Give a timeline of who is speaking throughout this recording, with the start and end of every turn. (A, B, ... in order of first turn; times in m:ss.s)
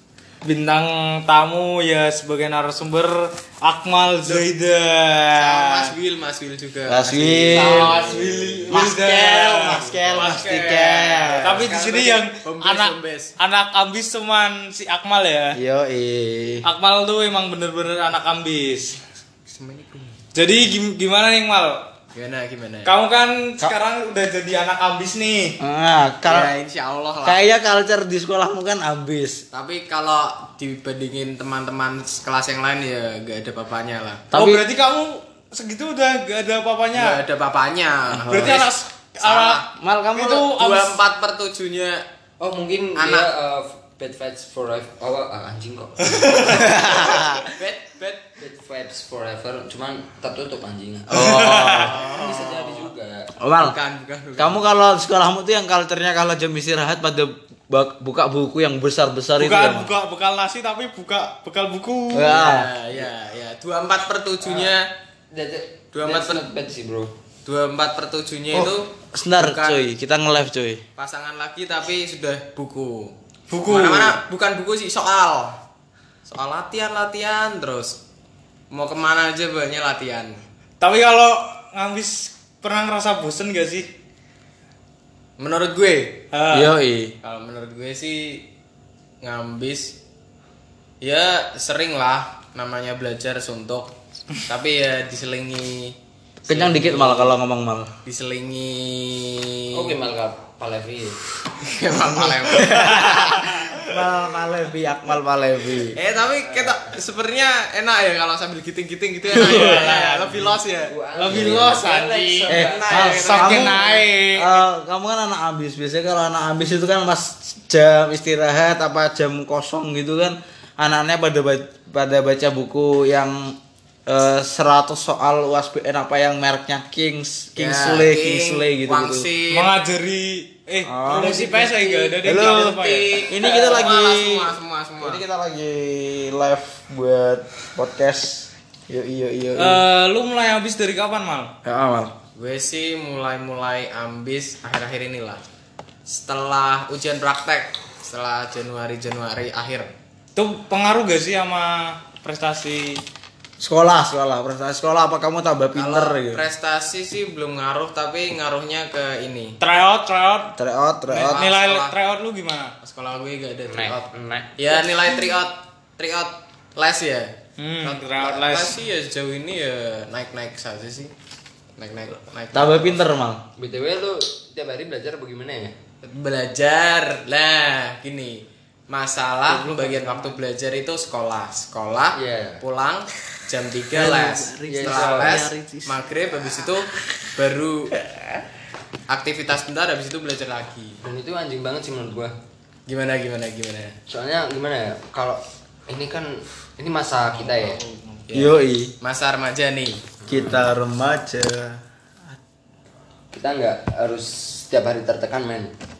0:00.4-0:05.9 A
0:05.4-0:08.8 B
0:06.9-0:11.8 C
0:07.5-0:15.6 A
0:09.7-0:10.4 B
0:11.4-0:13.3 B
0:15.6-0:16.6 C
0:16.6-0:19.0 A
0:19.5-0:20.1 B
0:20.3-0:21.8 A
0:22.1-0:22.9 B
0:22.8-0:25.6 A
0:25.6-0:26.5 C
0:26.2-0:27.4 B
0:27.2-0:29.4 C
0:29.5-0:34.3 B
0:34.3-0:37.2 A
0:34.3-0:34.7 C
0:36.9-0:42.0 B
0:38.2-0:38.6 C
0:38.2-0:39.6 A
0:39.7-0:40.5 C
0:40.1-0:41.0 A
0:42.4-0:47.1 D
0:43.0-0:43.3 B
0:46.1-0:46.6 A
0:46.4-0:47.5 C
0:47.4-0:48.2 B
0:48.4-0:53.3 D
0:51.1-0:52.4 C
0:51.1-0:52.0 A
0:52.1-0:52.4 B
0:53.4-0:53.8 C
0:53.6-0:54.6 B
0:54.4-0:59.9 C
0:59.4-1:02.4 A
1:02.1-1:02.7 C
1:02.3-1:04.9 B
1:04.4-1:04.7 D
1:05.3-1:07.1 D
1:05.9-1:06.4 B
1:07.4-1:09.8 B
1:08.5-1:10.8 C
1:11.0-1:15.6 B
1:13.5-1:14.2 A
1:16.2-1:18.0 B
1:18.7-1:20.4 B
1:20.8-1:23.9 A
1:25.4-1:26.2 B
1:26.3-1:26.7 A
1:26.5-1:27.2 C
1:27.2-1:28.4 B
1:29.2-1:30.0 B
1:31.0-1:33.9 B
1:34.4-1:37.4 B
1:36.4-1:37.9 C
1:38.0-1:39.9 B
1:39.7-1:41.2 D
1:41.6-1:43.2 B
1:42.3-1:46.0 C
1:45.9-1:50.9 B
1:49.3-1:50.0 C
1:49.3-1:50.6 A
1:50.8-1:53.2 D
1:51.1-1:54.6 A
1:51.8-1:54.0 B
1:52.5-2:09.3 C
2:07.6-2:09.7 B
2:09.5-2:13.1 A
2:10.9-2:11.4 C
2:11.3-2:15.2 B
2:12.2-2:12.8 C
2:13.3-2:19.8 C
2:19.6-2:21.5 A
2:21.6-2:22.2 C
2:22.4-2:25.4 B
2:26.1-2:29.9 B
2:30.3-2:33.0 A
2:33.6-2:36.4 C
2:35.8-2:39.6 B
2:39.6-2:40.5 A
2:40.6-2:41.4 C
2:41.1-2:42.7 A
2:41.2-2:42.0 B
2:42.8-2:44.0 B
2:43.7-2:44.8 D
2:44.6-2:51.1 B
2:47.6-2:48.8 A
2:51.8-2:53.1 B
2:52.5-2:53.4 C
2:53.6-2:55.8 D
2:56.0-3:07.9 B
2:59.5-3:00.3 A
3:02.1-3:02.6 D
3:03.9-3:06.0 C
3:04.7-3:05.5 D
3:09.1-3:11.0 B
3:11.0-3:12.3 D
3:12.9-3:14.0 B
3:14.1-3:17.8 D
3:17.3-3:18.2 A
3:18.3-3:20.0 B
3:18.3-3:18.9 C
3:20.2-3:20.7 D
3:20.3-3:22.4 C
3:23.3-3:25.7 D